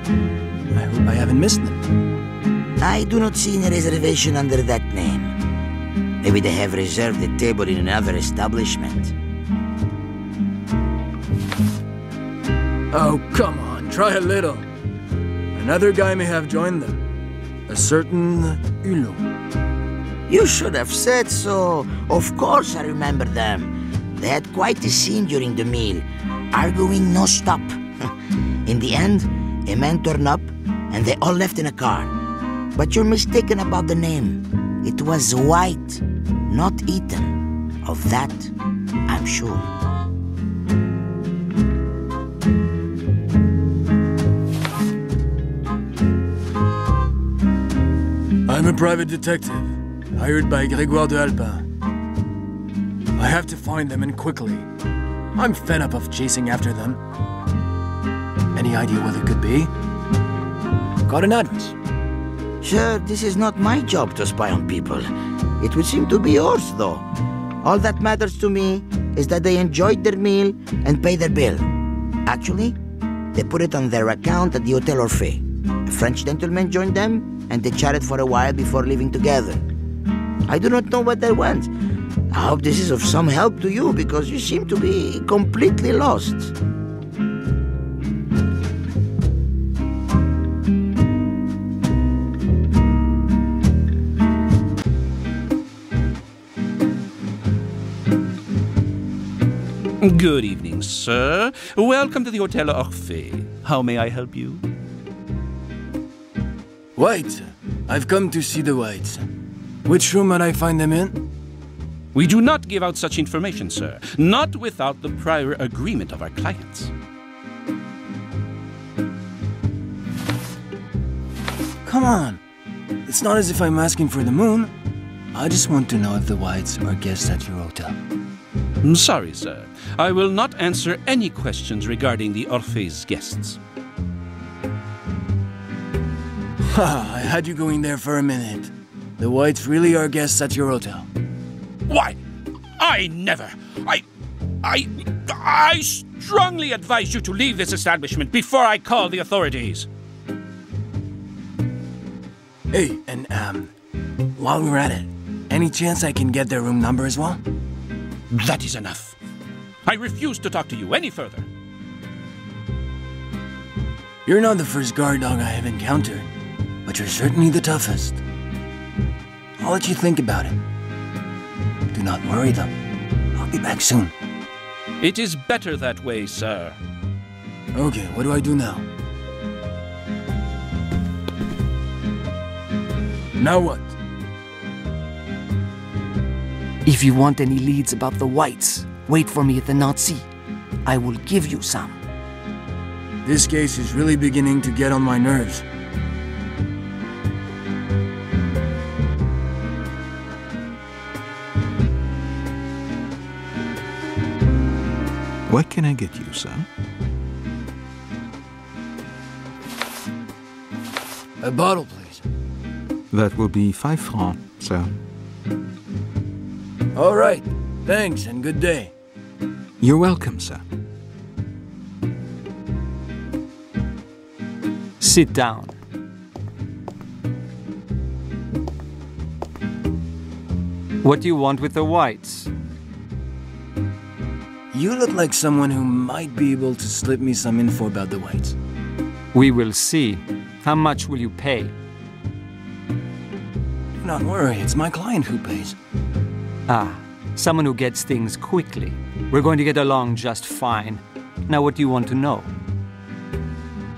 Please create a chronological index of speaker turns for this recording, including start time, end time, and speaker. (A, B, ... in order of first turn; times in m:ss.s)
0:00.7-0:01.8 A
0:02.8-0:05.3 B
0:06.2-0:09.1 B
0:12.9-0:14.7 A
0:15.5-0:17.0 A
0:17.7-0:19.2 A
0:20.3-0:28.1 B
0:28.7-0:32.1 B
0:32.8-0:38.5 B
0:39.1-0:39.7 B
0:48.5-0:51.7 A
0:53.2-0:54.7 A
0:55.4-0:57.0 A
0:58.5-0:59.7 A
1:01.1-1:01.8 A
1:02.6-1:05.1 B
1:05.6-1:07.1 B
1:07.6-1:11.7 B
1:12.3-1:12.8 B
1:13.3-1:19.6 B
1:20.5-1:21.7 B
1:22.3-1:26.5 B
1:40.0-1:44.6 C
1:47.0-1:49.2 A
1:49.9-1:51.2 A
1:52.1-1:56.9 C
2:01.8-2:02.4 A
2:03.0-2:04.7 A
2:05.3-2:08.0 A
2:08.8-2:13.6 C
2:16.6-2:21.1 A
2:21.9-2:22.2 C
2:22.8-2:24.0 C
2:24.6-2:29.9 C
2:32.7-2:33.7 A
2:34.4-2:37.4 A
2:38.3-2:39.2 C
2:39.9-2:41.5 C
2:44.3-2:46.3 A
2:46.8-2:48.2 A
2:49.6-2:50.6 A
2:51.9-2:52.7 A
2:53.4-2:54.1 A
2:55.0-2:56.8 C
2:57.7-2:58.9 A
3:03.4-3:04.0 A
3:06.8-3:10.3 D
3:10.8-3:12.0 D
3:13.2-3:15.6 A
3:25.5-3:26.7 E
3:31.4-3:32.2 A
3:33.1-3:34.9 E
3:36.9-3:38.9 A
3:39.8-3:40.6 E
3:45.0-3:45.8 D
3:51.0-3:52.5 D
3:54.7-3:58.6 A
3:59.3-4:01.7 D
4:04.0-4:05.8 A
4:06.7-4:12.5 D